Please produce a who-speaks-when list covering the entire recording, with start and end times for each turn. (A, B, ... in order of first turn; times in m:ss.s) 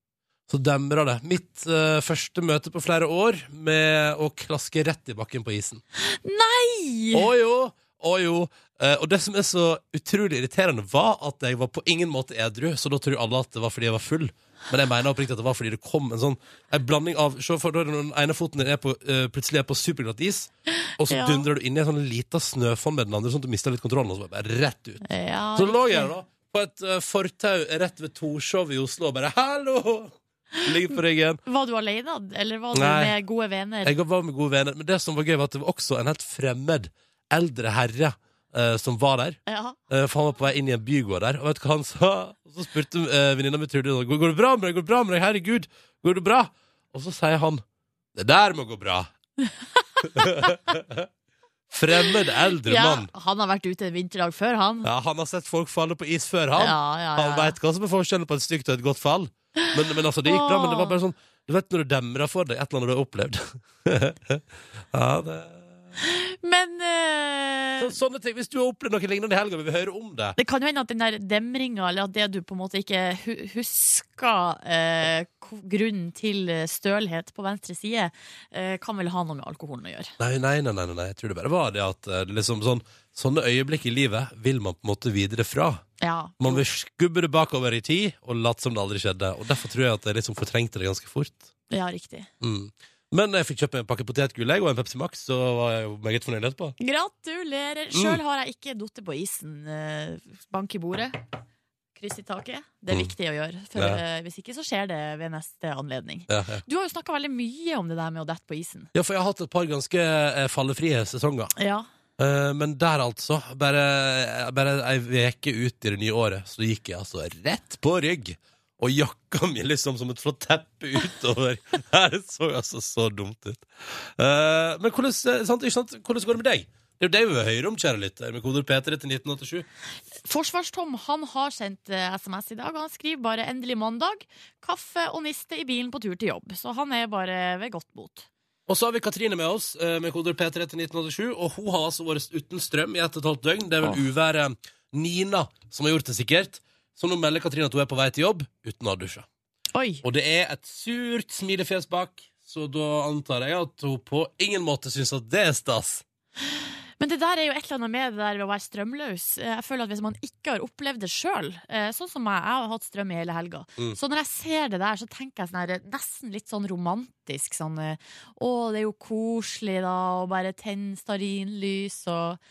0:00.5-0:05.8 A
0:06.2-0:07.3 B
0:07.1-0:25.0 A
0:21.1-0:21.5 B
0:25.0-0:26.1 B
0:25.6-0:31.4 A
0:31.5-0:33.9 B
0:32.7-0:33.1 A
0:33.8-0:39.4 A
0:39.5-0:39.8 B
0:39.9-0:47.6 A
0:48.2-0:49.1 A
0:49.8-0:50.6 B
0:50.2-0:51.1 A
0:51.7-0:53.1 A
0:52.7-0:54.9 B
0:54.8-1:05.8 A
0:56.6-0:57.6 B
1:00.3-1:01.0 B
1:06.0-1:07.9 B
1:07.8-1:10.4 A
1:10.4-1:20.1 B
1:20.2-1:25.8 A
1:26.0-1:26.6 B
1:26.4-1:31.4 A
1:31.7-1:32.3 B
1:32.4-1:36.8 A
1:36.8-1:41.2 B
1:37.9-1:38.2 A
1:42.0-1:48.9 B
1:43.8-1:44.0 A
1:46.3-1:46.6 A
1:48.9-1:51.6 A
1:51.6-1:51.9 B
1:52.2-2:09.7 A
2:10.2-2:18.3 B
2:18.7-2:29.3 A
2:29.7-2:30.0 B
2:30.0-2:36.0 A
2:37.0-2:52.4 B